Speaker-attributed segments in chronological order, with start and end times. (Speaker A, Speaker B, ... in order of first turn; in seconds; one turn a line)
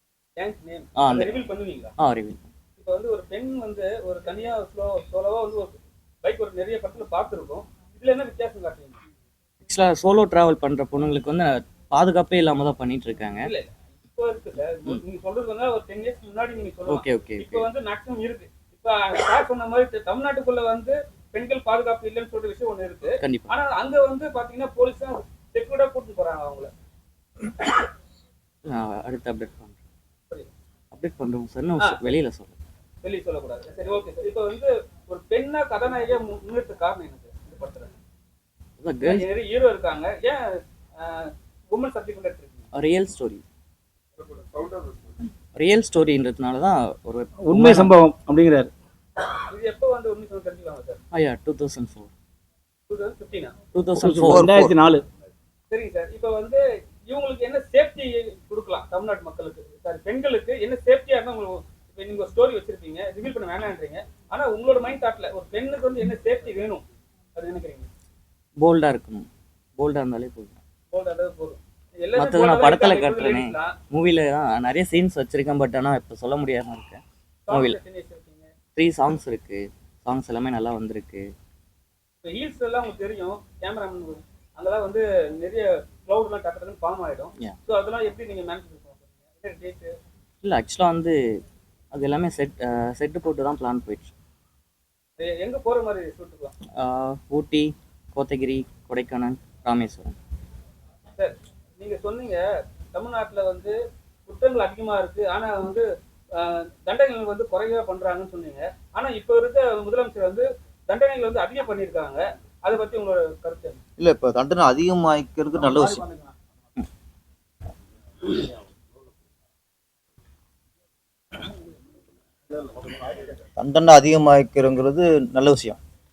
Speaker A: 0.4-1.9
Speaker B: 1.0-1.4
Speaker B: 2.0-2.5
Speaker A: 2.8-9.0
Speaker B: 9.7-13.5
Speaker A: 13.4-26.7
Speaker B: 16.9-17.6
Speaker B: 23.2-23.5
Speaker B: 28.6-29.7
Speaker B: 30.9-32.5
Speaker A: 33.0-37.9
Speaker B: 38.8-39.3
Speaker A: 39.0-42.6
Speaker B: 42.7-43.4
Speaker A: 44.6-44.9
Speaker B: 45.5-47.9
Speaker C: 47.4-48.7
Speaker A: 49.5-51.0
Speaker B: 51.1-52.1
Speaker A: 52.9-53.5
Speaker B: 53.7-54.5
Speaker C: 54.0-55.0
Speaker D: 54.1-54.8
Speaker A: 55.7-66.8
Speaker A: 67.3-67.9
Speaker B: 68.6-70.5
Speaker A: 70.9-73.8
Speaker B: 72.2-77.8
Speaker A: 77.5-78.5
Speaker B: 78.8-81.3
Speaker A: 82.2-90.0
Speaker B: 90.4-94.1
Speaker A: 95.2-96.5
Speaker B: 96.8-100.2
Speaker A: 101.2-103.8
Speaker A: 104.3-113.8
Speaker D: 114.0-116.0
Speaker A: 115.7-116.3
Speaker D: 123.6-125.8